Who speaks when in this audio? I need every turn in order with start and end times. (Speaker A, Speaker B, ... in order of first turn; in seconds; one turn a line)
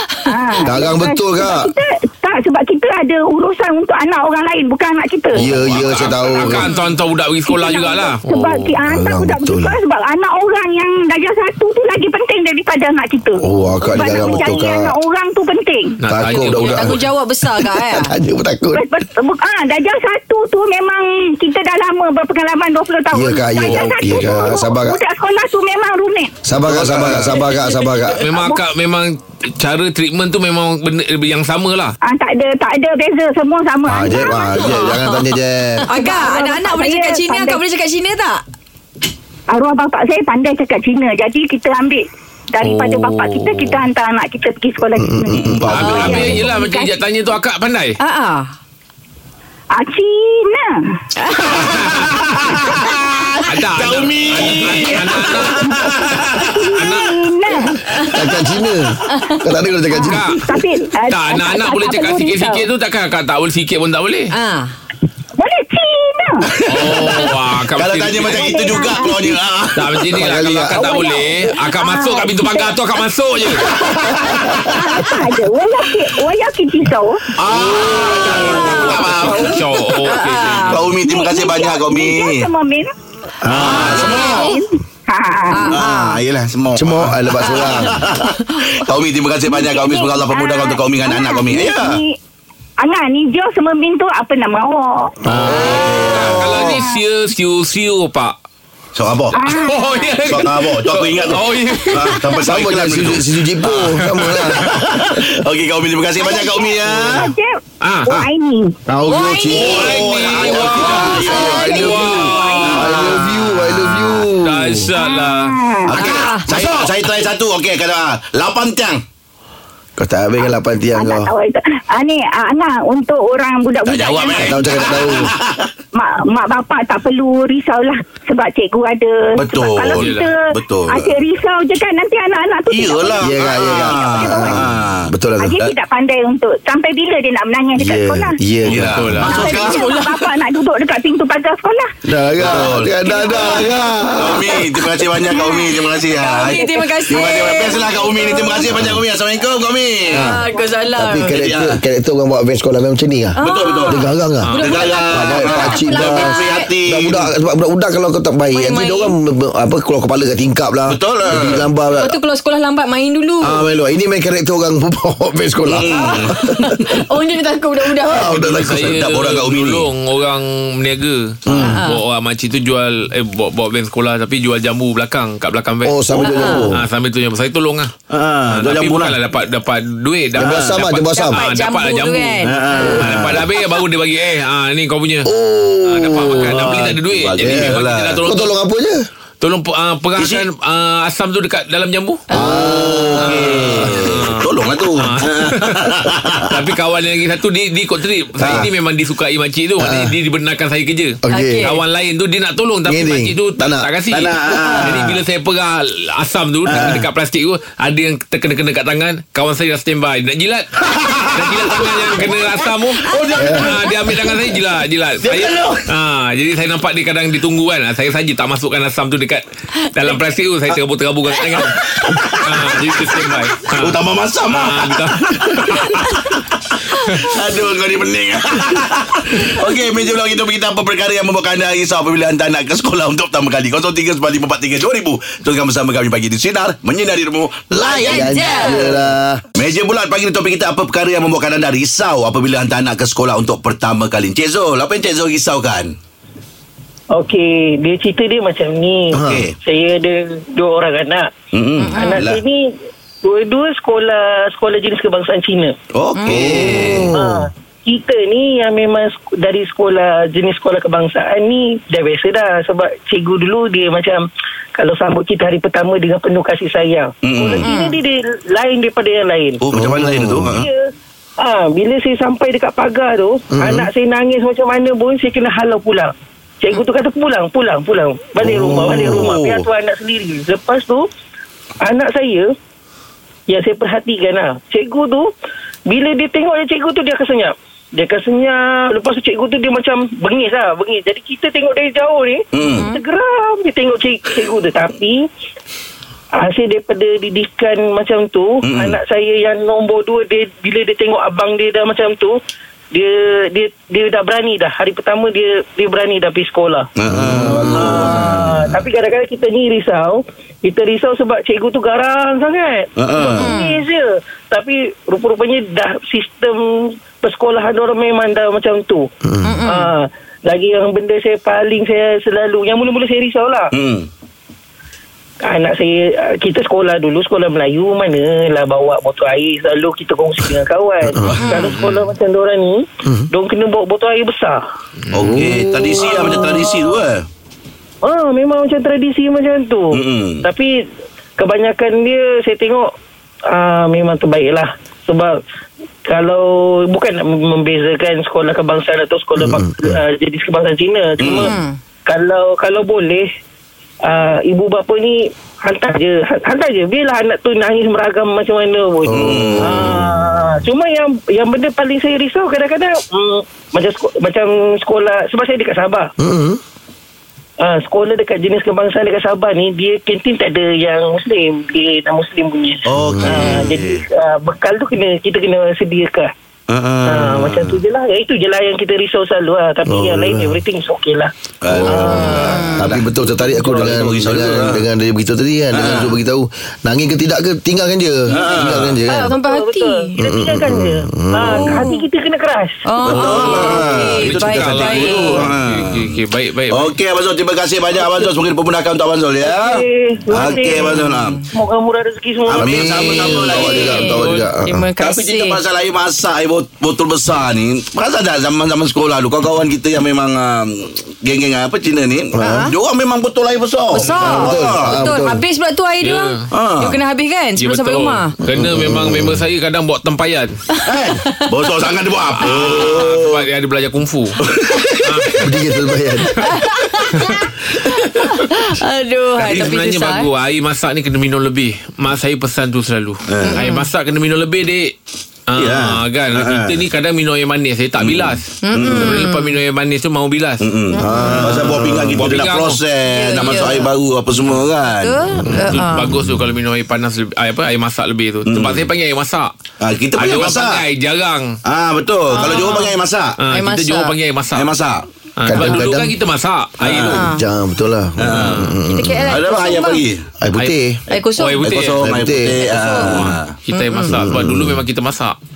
Speaker A: 0.2-5.4
Speaker B: 0.6-1.7
Speaker B: 5.3-6.7
Speaker C: 5.3-8.8
Speaker A: 7.4-16.0
Speaker B: 8.8-9.8
Speaker B: 13.4-14.9
Speaker C: 16.0-17.1
Speaker B: 16.1-17.0
Speaker D: 16.5-18.1
Speaker B: 17.6-18.9
Speaker A: 18.7-26.3
Speaker B: 23.1-25.0
Speaker C: 23.6-24.4
Speaker B: 26.4-28.3
Speaker E: 26.7-27.5
Speaker C: 28.1-31.9
Speaker A: 28.4-28.6
Speaker A: 32.0-34.7
Speaker B: 33.9-35.8
Speaker D: 34.7-38.4
Speaker A: 35.9-37.7
Speaker A: 39.5-47.0
Speaker C: 42.6-43.8
Speaker B: 45.0-46.5
Speaker E: 45.3-46.2
Speaker C: 45.7-48.0
Speaker D: 48.0-48.5
Speaker A: 49.8-51.0
Speaker E: 51.4-56.6
Speaker C: 51.6-52.5
Speaker C: 53.5-55.7
Speaker A: 55.1-55.9
Speaker A: 56.5-57.9
Speaker C: 56.8-57.2
Speaker B: 58.1-60.3
Speaker A: 59.9-62.6
Speaker C: 60.0-60.5
Speaker C: 61.1-64.3
Speaker D: 64.3-64.7
Speaker A: 65.3-66.5
Speaker E: 66.6-70.2
Speaker C: 66.7-68.9
Speaker A: 68.3-69.3
Speaker C: 69.7-74.1
Speaker B: 70.1-70.9
Speaker A: 70.7-72.7
Speaker E: 73.6-74.7
Speaker A: 74.7-77.2
Speaker E: 77.3-79.9
Speaker D: 77.7-79.0
Speaker A: 77.9-78.6
Speaker C: 78.8-80.8
Speaker A: 79.2-79.5
Speaker D: 80.0-80.8
Speaker E: 80.5-82.5
Speaker A: 81.0-82.9
Speaker E: 83.4-84.5
Speaker D: 83.5-84.5
Speaker B: 83.6-84.1
Speaker A: 83.9-86.0
Speaker D: 85.5-86.1
Speaker E: 85.7-92.0
Speaker B: 86.7-88.0
Speaker A: 89.4-92.2
Speaker A: 92.8-95.2
Speaker B: 95.2-96.8
Speaker C: 95.3-98.3
Speaker E: 95.7-96.1
Speaker A: 96.5-97.0
Speaker E: 98.9-99.4
Speaker A: 99.3-100.2
Speaker C: 99.5-102.2
Speaker E: 100.3-103.3
Speaker B: 102.4-104.6
Speaker C: 103.6-104.6
Speaker E: 104.5-107.3
Speaker A: 106.1-108.8
Speaker C: 107.8-108.2
Speaker B: 108.9-114.8
Speaker D: 109.1-109.6
Speaker E: 109.5-111.6
Speaker C: 109.5-115.5
Speaker A: 111.5-112.8
Speaker E: 112.7-113.1
Speaker A: 115.0-116.4
Speaker E: 115.9-119.0
Speaker D: 116.0-116.4
Speaker C: 116.1-116.9
Speaker B: 120.0-121.3
Speaker A: 121.0-124.5
Speaker E: 123.8-125.7
Speaker B: 124.4-125.3
Speaker A: 125.9-133.2
Speaker E: 129.4-131.1
Speaker C: 129.9-130.3
Speaker E: 132.7-135.7
Speaker B: 133.2-135.6
Speaker A: 133.9-134.6
Speaker A: 135.4-138.4
Speaker B: 137.8-139.4
Speaker C: 138.6-139.6
Speaker E: 138.7-140.3
Speaker A: 139.2-141.9
Speaker B: 142.1-144.7
Speaker E: 142.4-150.3
Speaker A: 146.1-148.4
Speaker D: 146.3-148.5
Speaker B: 148.5-149.0
Speaker B: 150.1-150.4
Speaker D: 150.3-151.3
Speaker B: 150.9-162.2
Speaker E: 151.2-151.8
Speaker D: 153.4-154.0
Speaker E: 153.4-157.3
Speaker C: 154.4-154.8
Speaker D: 154.6-156.7
Speaker D: 158.5-159.1
Speaker E: 160.9-161.7
Speaker D: 162.0-163.6
Speaker B: 163.4-166.7
Speaker E: 165.7-166.9
Speaker D: 166.9-168.2
Speaker A: 167.9-168.4
Speaker E: 168.0-169.9
Speaker C: 168.3-177.9
Speaker E: 171.5-171.8
Speaker D: 171.7-172.0
Speaker B: 175.8-176.8
Speaker D: 176.4-176.6
Speaker E: 178.1-179.2
Speaker C: 178.5-185.3
Speaker B: 180.3-181.5
Speaker E: 180.4-180.8
Speaker D: 181.1-182.9
Speaker E: 182.4-183.5
Speaker B: 185.2-186.8
Speaker C: 185.8-188.5
Speaker E: 186.5-188.2
Speaker B: 187.4-189.0
Speaker C: 189.4-192.2
Speaker E: 190.2-190.4
Speaker D: 192.3-192.8
Speaker B: 192.3-194.0
Speaker E: 192.6-196.4
Speaker C: 193.2-226.1
Speaker B: 198.4-198.7
Speaker E: 198.4-198.7
Speaker B: 199.8-200.1
Speaker B: 201.2-201.7
Speaker D: 201.3-201.7
Speaker B: 202.8-203.9
Speaker E: 204.1-205.2
Speaker E: 206.7-207.1
Speaker E: 210.8-212.1
Speaker E: 213.0-213.8
Speaker B: 213.3-213.8
Speaker E: 215.2-215.8
Speaker E: 221.6-245.9
Speaker C: 226.9-227.4
Speaker D: 237.8-238.8
Speaker B: 238.0-239.4
Speaker F: 247.1-251.3
Speaker B: 249.2-249.4
Speaker E: 249.2-249.5
Speaker E: 251.5-252.4
Speaker D: 251.8-252.2
Speaker F: 251.9-252.7
Speaker F: 253.2-255.8
Speaker E: 255.9-257.1
Speaker D: 256.1-256.7
Speaker B: 256.3-257.4
Speaker F: 256.3-264.2
Speaker F: 264.8-269.6
Speaker E: 267.2-267.7
Speaker D: 267.6-268.0
Speaker E: 269.6-270.7
Speaker B: 269.7-270.6
Speaker F: 270.5-270.9
Speaker F: 271.4-281.1
Speaker B: 273.6-273.9
Speaker E: 278.4-279.7
Speaker F: 281.8-282.5
Speaker F: 283.5-285.3
Speaker F: 285.9-295.2
Speaker E: 292.5-292.9
Speaker F: 296.3-302.3
Speaker E: 298.6-299.0
Speaker F: 302.9-306.9
Speaker E: 307.0-308.4
Speaker B: 307.1-308.1
Speaker F: 307.4-319.1
Speaker E: 313.0-313.5
Speaker D: 313.4-313.7
Speaker B: 319.3-319.5
Speaker D: 319.4-319.7
Speaker F: 319.6-323.7
Speaker E: 323.7-324.1
Speaker F: 325.4-334.6
Speaker C: 331.6-332.1
Speaker E: 335.1-337.3
Speaker B: 335.2-335.6
Speaker F: 335.8-336.8
Speaker F: 338.0-340.7
Speaker E: 339.9-340.5
Speaker F: 341.4-342.9
Speaker F: 343.5-345.3
Speaker F: 346.1-353.3
Speaker B: 349.4-349.9
Speaker E: 351.2-351.5
Speaker D: 351.5-351.8
Speaker F: 354.0-366.1
Speaker B: 359.1-360.2
Speaker E: 359.1-359.8
Speaker B: 366.2-366.6
Speaker F: 367.6-376.3
Speaker E: 372.8-374.1
Speaker B: 373.0-373.6
Speaker E: 376.7-377.8
Speaker F: 377.0-381.3
Speaker B: 379.9-380.6
Speaker E: 381.6-383.1
Speaker B: 381.7-389.3
Speaker F: 381.9-383.9
Speaker D: 382.4-382.9
Speaker E: 383.7-384.9
Speaker E: 385.7-386.2
Speaker F: 388.3-393.4
Speaker E: 388.4-389.0
Speaker D: 389.2-389.9
Speaker B: 390.2-391.8
Speaker D: 391.4-391.8
Speaker D: 392.9-395.2
Speaker E: 393.1-401.4
Speaker B: 393.1-394.5
Speaker A: 393.3-394.1
Speaker C: 394.2-396.9
Speaker A: 394.9-395.3
Speaker F: 397.9-398.3
Speaker F: 399.4-400.8
Speaker D: 400.6-401.1
Speaker F: 401.5-403.6
Speaker E: 402.5-404.1
Speaker B: 402.6-404.9
Speaker D: 403.5-405.6
Speaker C: 404.0-404.5
Speaker E: 405.0-415.0
Speaker B: 412.3-412.7
Speaker D: 413.9-418.4
Speaker B: 414.1-415.4
Speaker C: 416.0-416.4
Speaker E: 416.5-417.0
Speaker C: 417.6-420.6
Speaker B: 418.5-419.4
Speaker E: 420.8-423.4
Speaker C: 422.4-424.4
Speaker E: 424.4-425.0
Speaker C: 425.0-425.5
Speaker B: 425.4-426.5
Speaker D: 426.4-427.4
Speaker C: 427.1-427.5
Speaker D: 428.5-430.3
Speaker C: 429.4-434.9
Speaker E: 433.3-433.6
Speaker D: 433.5-433.9
Speaker C: 435.5-440.7
Speaker E: 435.6-436.8
Speaker E: 438.0-439.2
Speaker D: 438.6-439.6
Speaker E: 440.6-445.3
Speaker B: 441.0-442.3
Speaker C: 441.2-441.6
Speaker C: 442.1-442.8
Speaker D: 443.1-443.9
Speaker D: 445.0-446.1
Speaker C: 445.4-449.5
Speaker E: 448.4-448.9
Speaker E: 449.8-450.8
Speaker C: 450.1-451.5
Speaker E: 451.6-453.4
Speaker D: 452.3-452.8
Speaker C: 453.4-454.7
Speaker D: 453.5-454.2
Speaker E: 454.5-455.1
Speaker C: 455.4-457.3
Speaker B: 455.4-456.1
Speaker E: 456.8-457.3
Speaker D: 457.1-457.4
Speaker B: 457.2-459.3
Speaker E: 458.2-460.3
Speaker D: 458.9-460.0
Speaker B: 460.4-461.0
Speaker C: 460.5-462.1
Speaker D: 461.1-461.6
Speaker E: 461.6-463.6
Speaker B: 461.8-462.6
Speaker D: 462.6-463.2
Speaker C: 462.9-465.4
Speaker D: 463.7-464.1
Speaker B: 464.1-464.8